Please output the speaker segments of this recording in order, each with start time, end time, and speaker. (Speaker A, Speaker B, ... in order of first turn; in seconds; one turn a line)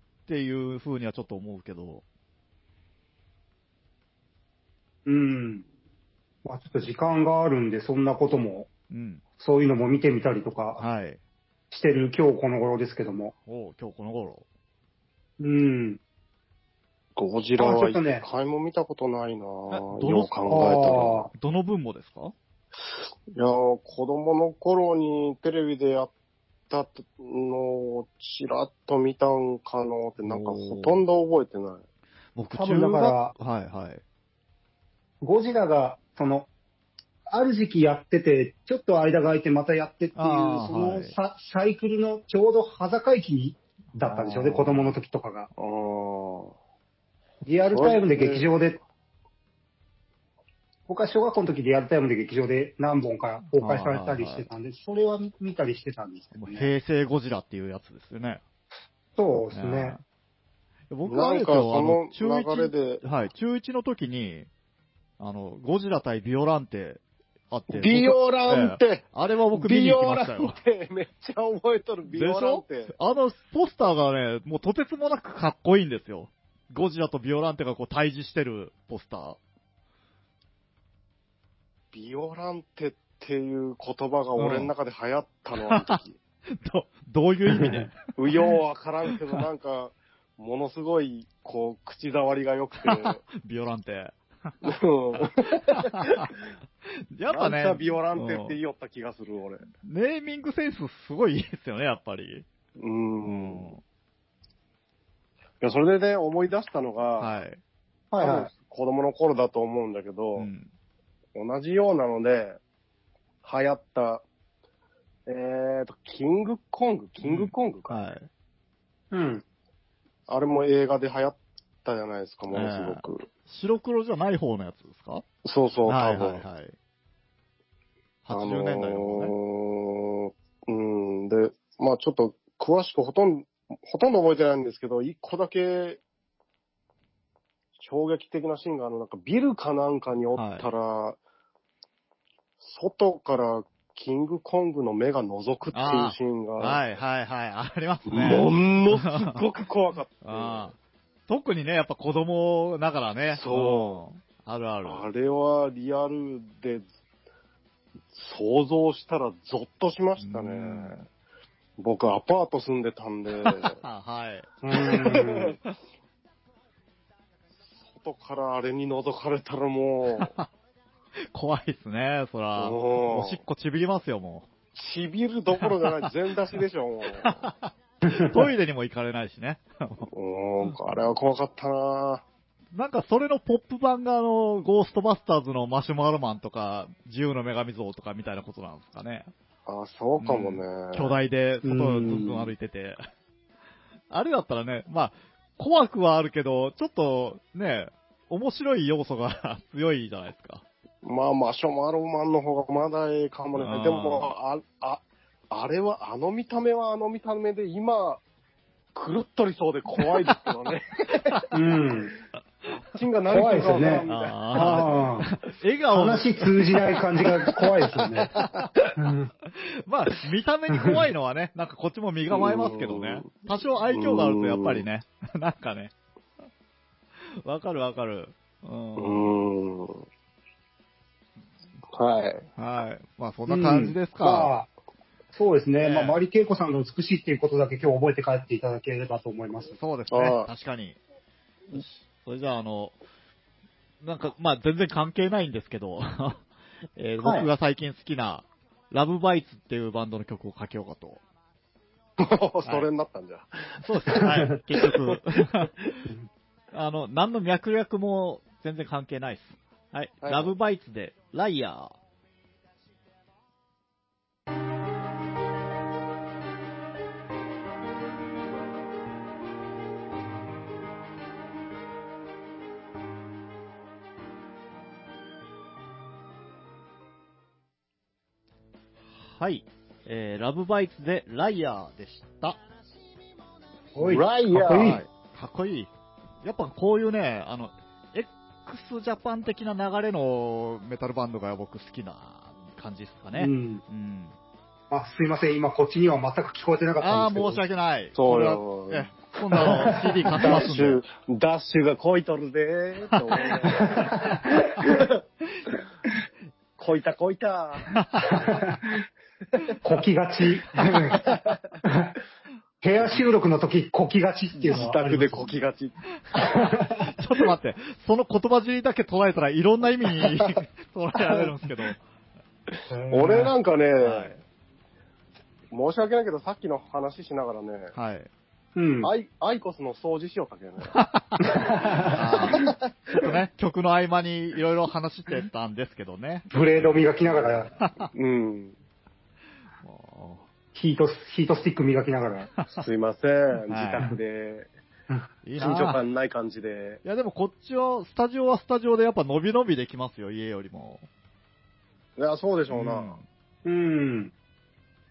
Speaker A: 0.3-2.0
Speaker B: 5.0-5.7
Speaker B: 6.4-8.7
Speaker A: 8.9-9.2
Speaker B: 9.4-10.8
Speaker A: 10.8-11.2
Speaker B: 11.7-13.3
Speaker A: 13.4-14.4
Speaker B: 15.4-16.0
Speaker C: 17.1-21.2
Speaker B: 17.6-18.2
Speaker A: 19.7-22.3
Speaker B: 20.5-21.3
Speaker C: 23.3-26.1
Speaker C: 26.7-31.8
Speaker A: 30.2-31.0
Speaker A: 32.3-34.0
Speaker B: 32.5-33.3
Speaker B: 35.2-36.5
Speaker B: 37.3-45.5
Speaker A: 40.1-41.1
Speaker A: 44.0-45.0
Speaker C: 45.5-46.5
Speaker B: 47.4-48.8
Speaker C: 47.7-48.5
Speaker B: 50.9-56.7
Speaker A: 53.6-54.5
Speaker A: 56.4-58.4
Speaker B: 59.2-60.0
Speaker A: 59.5-60.0
Speaker A: 60.9-64.5
Speaker C: 61.0-63.0
Speaker A: 65.2-70.6
Speaker C: 67.7-72.9
Speaker A: 72.1-79.4
Speaker C: 81.9-86.2
Speaker A: 84.4-84.7
Speaker A: 85.5-86.0
Speaker A: 86.6-88.5
Speaker B: 87.6-87.8
Speaker C: 88.1-93.2
Speaker A: 92.8-94.5
Speaker C: 94.6-96.3
Speaker A: 95.1-96.3
Speaker A: 97.1-98.6
Speaker C: 97.3-99.7
Speaker A: 99.8-102.5
Speaker C: 102.8-103.8
Speaker A: 103.2-103.8
Speaker C: 105.6-107.3
Speaker A: 107.2-107.6
Speaker B: 108.1-108.5
Speaker C: 108.2-110.5
Speaker A: 110.4-110.7
Speaker C: 111.3-112.6
Speaker C: 113.4-114.2
Speaker C: 115.3-118.0
Speaker A: 117.2-118.3
Speaker B: 119.1-119.4
Speaker C: 120.3-123.2
Speaker A: 122.5-125.2
Speaker C: 125.4-126.4
Speaker A: 125.9-126.7
Speaker A: 128.2-129.3
Speaker C: 128.3-136.0
Speaker C: 137.8-141.2
Speaker A: 140.3-140.7
Speaker C: 142.6-146.8
Speaker A: 145.7-149.4
Speaker C: 148.1-150.7
Speaker A: 150.2-150.8
Speaker A: 151.3-155.1
Speaker C: 153.3-154.0
Speaker C: 154.8-156.8
Speaker C: 158.1-161.0
Speaker A: 160.2-161.0
Speaker C: 161.8-163.8
Speaker A: 163.4-165.2
Speaker B: 164.6-165.6
Speaker C: 164.8-165.6
Speaker C: 167.9-170.3
Speaker A: 170.2-170.5
Speaker A: 171.3-174.5
Speaker C: 172.6-173.4
Speaker C: 174.7-177.5
Speaker A: 175.6-176.0
Speaker A: 177.2-180.1
Speaker C: 180.1-182.2
Speaker A: 182.7-189.3
Speaker C: 189.7-191.1
Speaker A: 190.2-193.0
Speaker B: 191.6-192.5
Speaker A: 194.1-200.6
Speaker C: 201.0-208.2
Speaker A: 203.5-204.3
Speaker C: 208.9-211.5
Speaker A: 210.0-210.3
Speaker B: 211.5-212.1
Speaker C: 212.8-215.1
Speaker B: 213.3-215.3
Speaker A: 214.1-216.8
Speaker B: 215.9-218.3
Speaker C: 218.2-218.7
Speaker A: 218.4-218.7
Speaker B: 218.9-219.3
Speaker A: 219.5-225.9
Speaker C: 222.3-224.8
Speaker A: 227.4-229.3
Speaker C: 229.0-230.0
Speaker C: 231.9-232.5
Speaker A: 232.6-234.5
Speaker B: 233.5-234.7
Speaker B: 235.3-239.8
Speaker A: 235.8-236.2
Speaker A: 239.8-241.0
Speaker C: 240.1-240.5
Speaker A: 241.7-242.9
Speaker A: 244.0-246.4
Speaker A: 246.9-251.2
Speaker B: 247.2-247.5
Speaker C: 252.2-253.8
Speaker A: 253.8-255.9
Speaker B: 254.1-254.6
Speaker C: 254.8-255.2
Speaker A: 256.7-261.9
Speaker C: 260.2-260.5
Speaker A: 279.2-282.6
Speaker B: 283.9-285.0
Speaker C: 284.0-285.0
Speaker A: 284.7-285.9
Speaker A: 286.4-294.4
Speaker B: 293.3-293.8
Speaker B: 294.9-297.6
Speaker A: 297.0-301.0
Speaker C: 298.1-305.2
Speaker B: 299.5-300.6
Speaker A: 303.1-303.5
Speaker B: 303.8-305.0
Speaker C: 306.8-307.9
Speaker A: 307.9-308.4
Speaker B: 308.2-309.0
Speaker B: 309.8-311.2
Speaker C: 311.2-311.6
Speaker B: 311.8-312.1
Speaker B: 312.8-315.5
Speaker A: 314.5-314.9
Speaker C: 314.7-315.9
Speaker A: 316.3-322.0
Speaker B: 316.3-317.1
Speaker B: 322.9-323.5
Speaker C: 323.1-324.3
Speaker A: 324.0-324.4
Speaker C: 325.7-327.9
Speaker A: 327.9-328.3
Speaker B: 328.8-329.1
Speaker C: 329.0-331.0
Speaker A: 330.9-331.5
Speaker B: 331.4-332.7
Speaker A: 332.1-338.1
Speaker B: 336.5-337.7
Speaker C: 338.1-338.8
Speaker A: 339.8-340.4
Speaker B: 340.7-342.5
Speaker C: 342.8-344.7
Speaker A: 343.7-344.1
Speaker A: 345.4-346.0
Speaker C: 345.6-347.0
Speaker A: 347.0-351.1
Speaker C: 352.2-353.2
Speaker A: 352.7-353.2
Speaker B: 353.6-354.3